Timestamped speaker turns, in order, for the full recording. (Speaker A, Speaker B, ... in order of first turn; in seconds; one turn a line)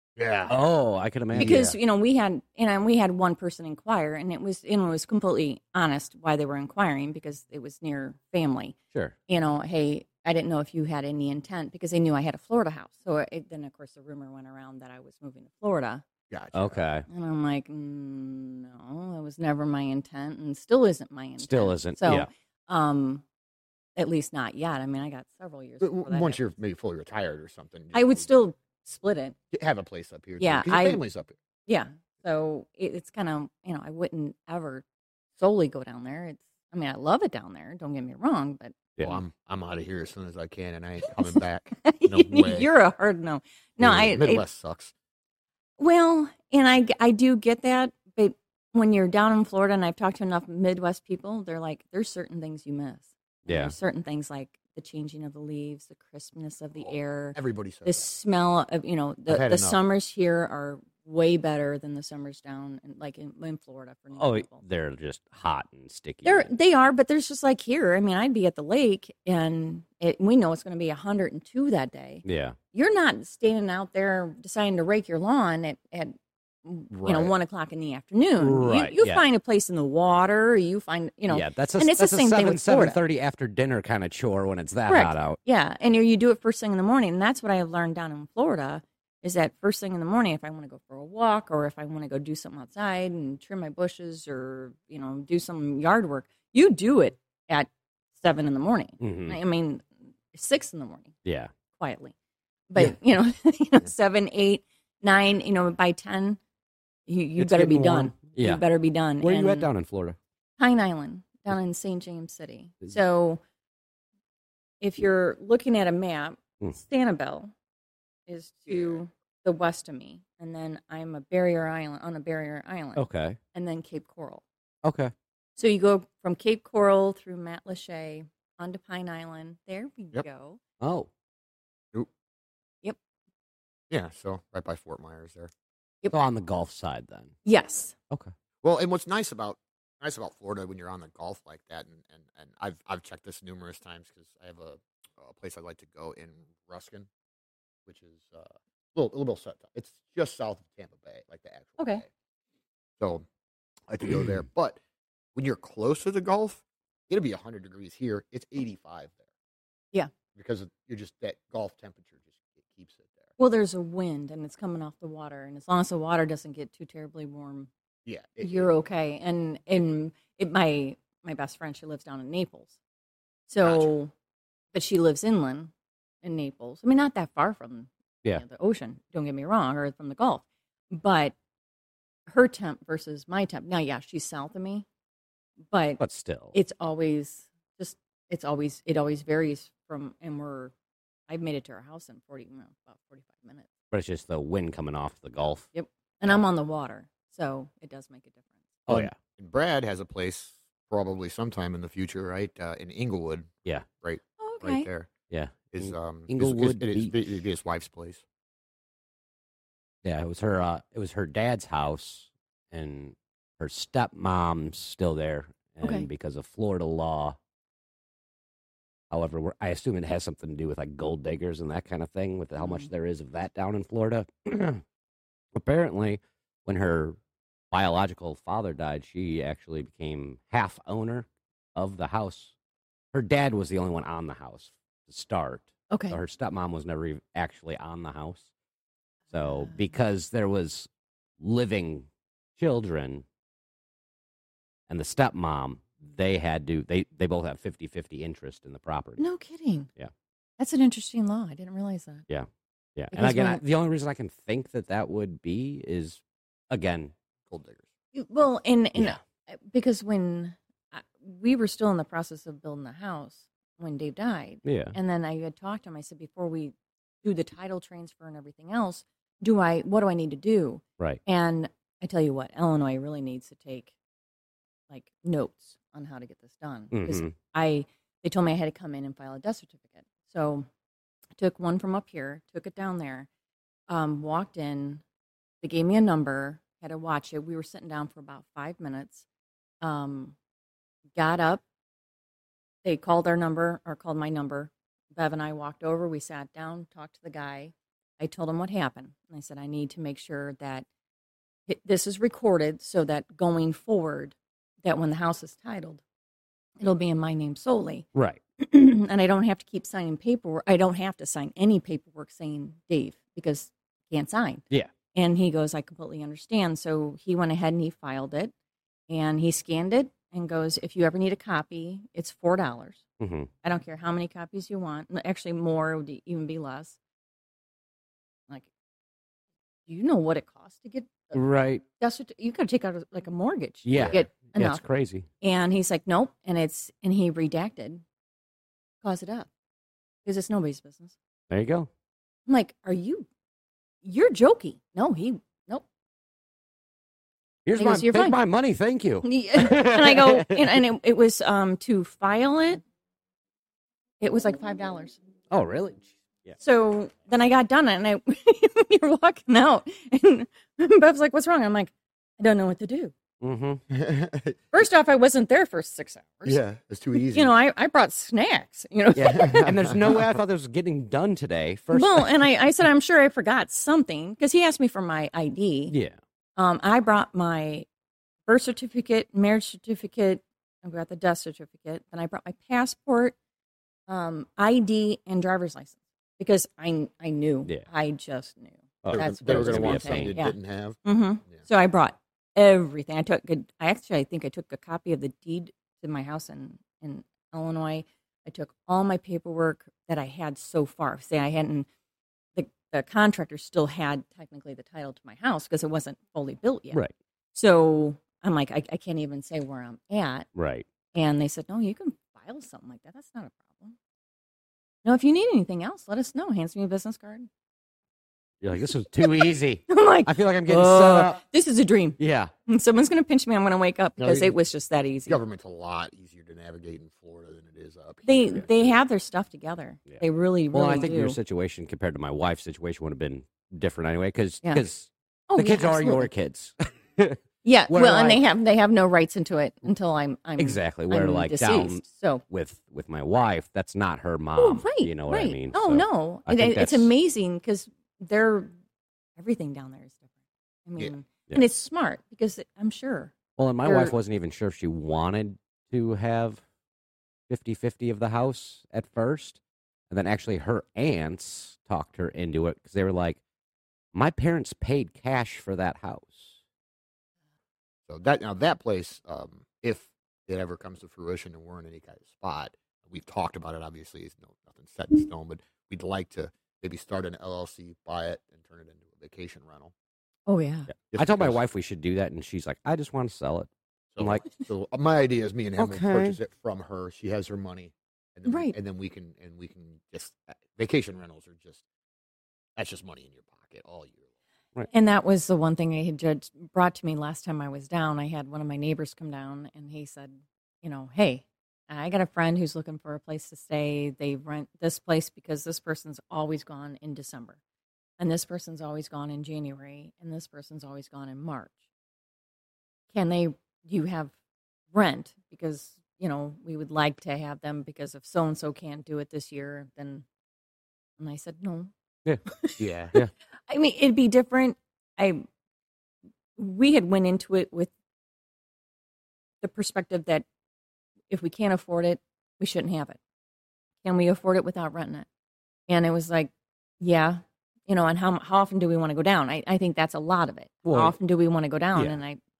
Speaker A: 0.1-0.6
Speaker B: 0.5-1.6
Speaker A: 1.3-1.8
Speaker C: 1.4-8.8
Speaker C: 9.3-16.0
Speaker A: 16.3-16.8
Speaker B: 16.5-17.1
Speaker C: 17.1-23.2
Speaker B: 21.4-22.3
Speaker C: 23.9-26.4
Speaker A: 25.8-28.2
Speaker C: 27.9-29.4
Speaker A: 29.5-31.4
Speaker C: 30.4-31.0
Speaker C: 31.6-34.8
Speaker C: 35.4-38.8
Speaker A: 39.0-42.7
Speaker C: 41.8-44.4
Speaker A: 43.8-44.9
Speaker C: 45.8-64.6
Speaker B: 53.5-53.7
Speaker A: 56.8-58.1
Speaker A: 59.3-59.8
Speaker B: 64.2-66.5
Speaker C: 66.2-83.0
Speaker B: 72.2-72.6
Speaker A: 76.9-77.3
Speaker B: 78.4-79.2
Speaker B: 81.3-85.4
Speaker C: 84.9-101.1
Speaker B: 99.0-99.4
Speaker B: 101.2-101.5
Speaker C: 101.8-102.1
Speaker C: 102.7-106.4
Speaker C: 107.1-109.7
Speaker B: 107.4-108.6
Speaker B: 109.2-110.2
Speaker C: 110.6-113.4
Speaker C: 114.8-117.5
Speaker C: 118.3-124.4
Speaker A: 118.7-119.0
Speaker B: 123.0-123.4
Speaker B: 124.8-125.1
Speaker C: 125.6-130.6
Speaker B: 130.8-131.1
Speaker A: 133.9-135.5
Speaker B: 136.1-137.3
Speaker C: 137.4-137.9
Speaker A: 138.6-147.1
Speaker A: 147.8-152.0
Speaker C: 151.8-152.0
Speaker A: 153.0-153.2
Speaker A: 153.9-154.8
Speaker A: 155.3-159.2
Speaker A: 160.3-163.3
Speaker C: 163.4-167.7
Speaker A: 168.1-168.7
Speaker C: 168.4-172.8
Speaker C: 173.5-174.1
Speaker A: 173.6-173.9
Speaker C: 174.7-175.7
Speaker C: 176.2-181.3
Speaker C: 182.3-184.8
Speaker C: 185.7-186.0
Speaker B: 186.0-186.5
Speaker C: 186.5-190.7
Speaker C: 191.3-193.7
Speaker B: 193.9-195.7
Speaker C: 195.7-198.7
Speaker B: 198.9-199.1
Speaker A: 198.9-205.1
Speaker C: 204.4-204.9
Speaker B: 205.3-207.2
Speaker A: 205.7-208.2
Speaker B: 210.0-217.3
Speaker B: 219.1-224.8
Speaker C: 222.6-222.9
Speaker B: 225.5-227.2
Speaker B: 227.7-232.5
Speaker B: 233.1-238.5
Speaker C: 235.9-236.2
Speaker B: 239.3-240.9
Speaker C: 239.4-239.8
Speaker B: 241.4-242.1
Speaker B: 242.6-243.2
Speaker B: 244.9-249.2
Speaker C: 249.2-249.9
Speaker C: 250.6-252.2
Speaker B: 252.3-257.1
Speaker C: 253.1-253.6
Speaker A: 257.5-257.9
Speaker C: 258.1-273.9
Speaker B: 264.6-264.9
Speaker C: 274.9-280.7
Speaker B: 276.9-277.3
Speaker C: 281.4-283.3
Speaker C: 283.9-285.0
Speaker C: 285.6-289.2
Speaker C: 289.8-290.4
Speaker C: 291.1-291.6
Speaker C: 292.8-300.9
Speaker C: 301.7-306.0
Speaker C: 306.8-308.1
Speaker C: 308.6-314.6
Speaker C: 315.1-318.5
Speaker C: 319.1-323.0
Speaker B: 323.2-323.5
Speaker C: 323.6-326.9
Speaker C: 329.9-331.4
Speaker B: 331.3-331.8
Speaker C: 332.0-334.8
Speaker B: 333.8-335.3
Speaker A: 333.9-334.2
Speaker C: 335.4-338.0
Speaker C: 339.0-339.5
Speaker C: 340.2-341.1
Speaker B: 341.5-341.9
Speaker C: 342.5-343.3
Speaker C: 344.0-345.8
Speaker B: 347.6-350.8
Speaker C: 347.7-348.4
Speaker C: 349.2-352.8
Speaker C: 354.2-355.2
Speaker B: 355.5-356.5
Speaker C: 356.6-363.1
Speaker B: 363.4-363.8
Speaker A: 363.9-364.6
Speaker C: 364.7-366.6
Speaker A: 366.4-367.5
Speaker C: 367.3-369.9
Speaker B: 369.1-372.3
Speaker A: 369.3-370.2
Speaker C: 371.9-375.9
Speaker B: 375.9-376.2
Speaker C: 376.6-377.9
Speaker C: 378.5-383.4
Speaker C: 384.1-401.9
Speaker B: 389.0-390.4
Speaker A: 389.1-391.0
Speaker C: 402.6-407.0
Speaker C: 407.5-410.5
Speaker B: 410.5-410.9
Speaker C: 411.1-413.9
Speaker C: 415.0-417.5
Speaker B: 418.6-421.4
Speaker C: 419.2-425.4
Speaker B: 422.2-422.5
Speaker A: 424.2-424.6
Speaker A: 425.3-428.9
Speaker C: 428.2-431.4
Speaker B: 430.7-438.4
Speaker C: 435.5-436.3
Speaker C: 437.6-442.4
Speaker B: 440.6-447.1
Speaker C: 444.6-448.7
Speaker C: 449.4-450.3
Speaker C: 450.9-454.1
Speaker B: 453.6-456.6
Speaker B: 457.5-459.6
Speaker B: 460.1-463.4
Speaker B: 464.1-466.6
Speaker A: 468.1-479.9
Speaker C: 480.5-480.9
Speaker B: 481.0-484.5
Speaker A: 481.1-481.6
Speaker A: 484.1-491.8
Speaker B: 485.8-486.4
Speaker C: 488.5-488.7
Speaker A: 492.8-494.2
Speaker C: 494.9-507.6
Speaker C: 508.2-511.8
Speaker C: 513.1-514.3
Speaker C: 514.9-520.2
Speaker C: 521.2-521.9
Speaker C: 522.5-525.5
Speaker A: 522.8-523.1
Speaker C: 526.6-527.9
Speaker C: 529.6-530.4
Speaker C: 531.3-533.2
Speaker C: 534.0-535.3
Speaker C: 535.9-542.4
Speaker B: 540.9-541.2